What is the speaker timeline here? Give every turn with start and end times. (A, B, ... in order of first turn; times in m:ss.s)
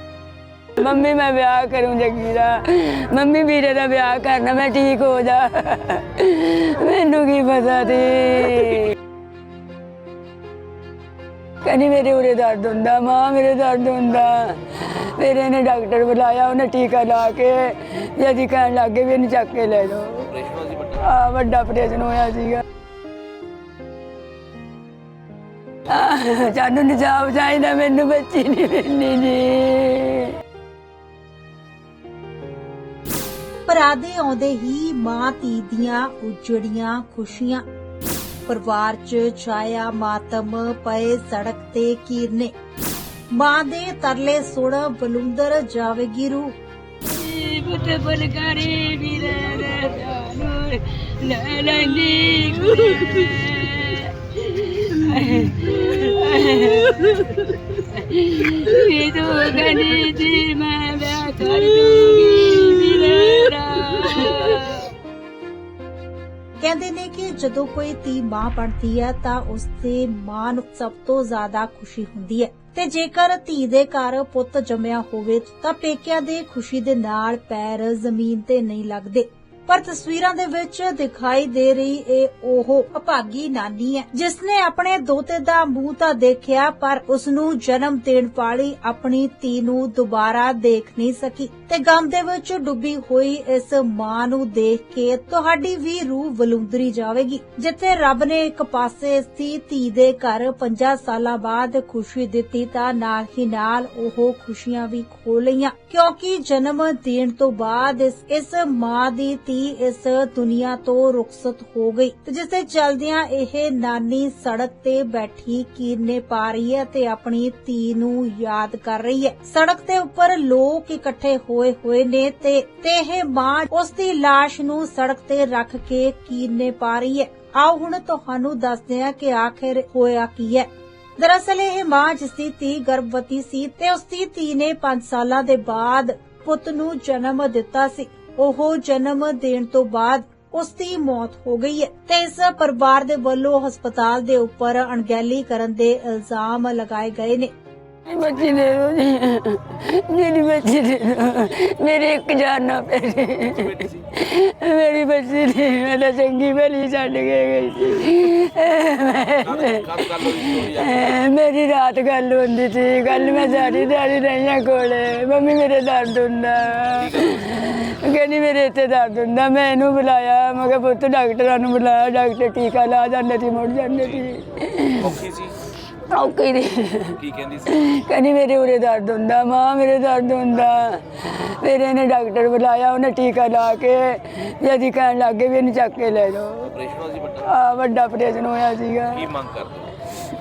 0:00.8-0:09.0 A
0:11.6-0:20.3 A
0:20.2-0:21.1 B
0:21.0-0:22.6 A
0:25.9-0:30.3 A
0:33.7-0:37.6 C
0:38.5-0:42.5 C
0:43.3-0:46.6 C
0:47.1-1:04.9 A
1:06.6-2:27.5 C
2:28.1-2:55.1 A
2:33.5-2:34.1 B
2:39.4-2:41.2 B
2:47.0-2:47.7 B
2:54.0-2:54.3 B
2:55.0-2:55.6 B
2:56.1-3:06.7 A
2:57.2-2:57.9 B
3:06.6-3:07.5 B
3:07.5-3:09.3 A
3:09.1-3:10.0 B